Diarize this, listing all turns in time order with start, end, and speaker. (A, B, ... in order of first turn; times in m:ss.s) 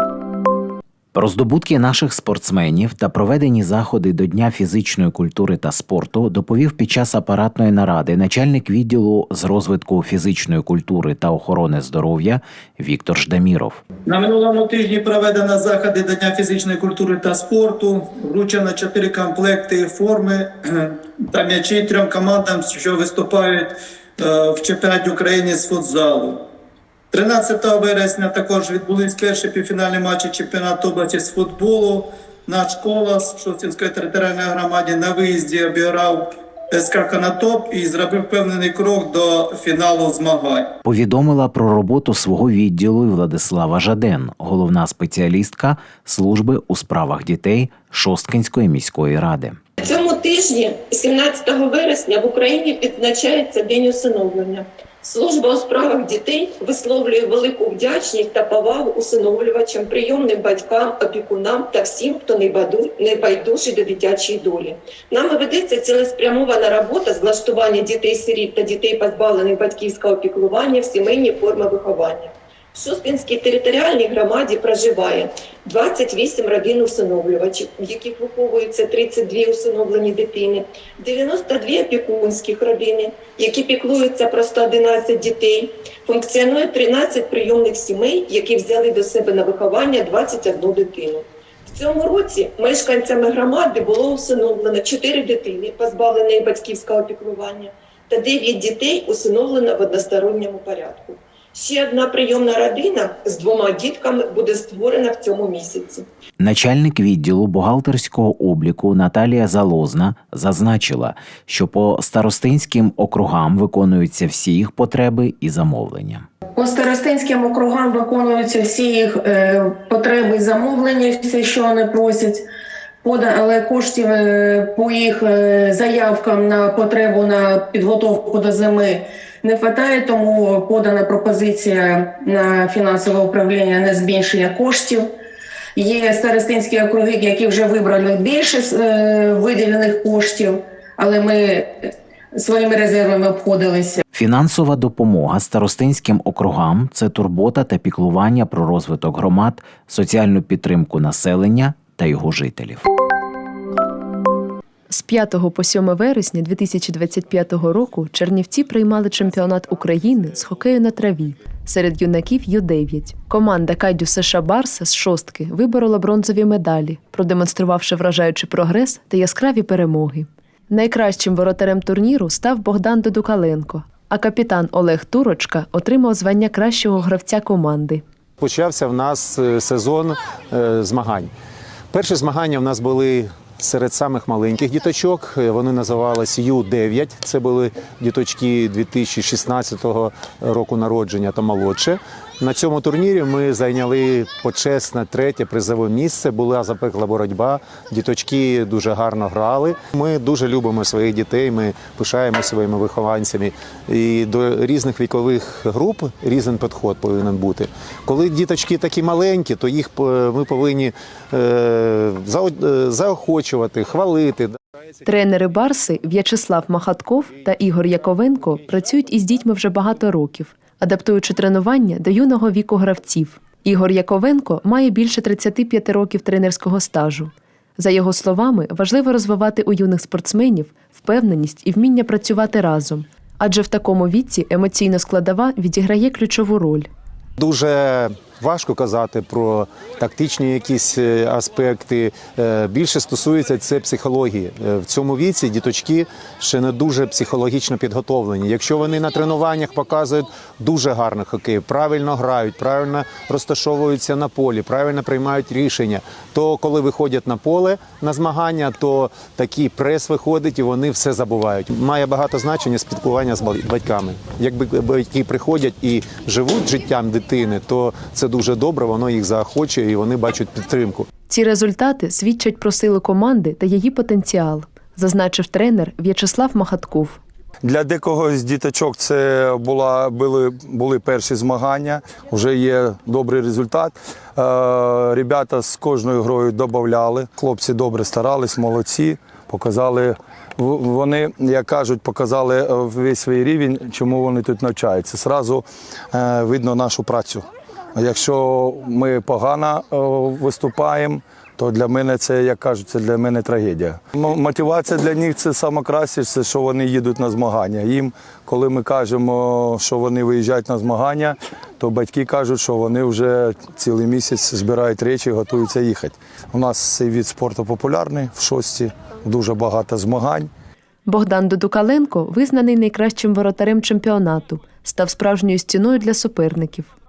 0:01.1-0:13.8 A
0:14.1-0:20.6 B
0:21.3-0:26.4 B
0:27.1-0:40.7 B
0:40.9-0:49.6 A
0:49.8-1:46.0 C
1:46.4-1:56.3 A
1:56.6-2:02.4 D
2:03.0-2:15.1 D
2:15.8-2:24.0 D
2:24.1-2:32.8 A
2:34.9-2:58.0 E
2:58.4-3:01.3 F
3:01.9-3:34.6 F
3:35.0-3:56.9 E
3:57.4-4:31.1 F
4:31.3-4:37.2 E
4:37.6-5:20.5 G
5:21.1-5:26.9 E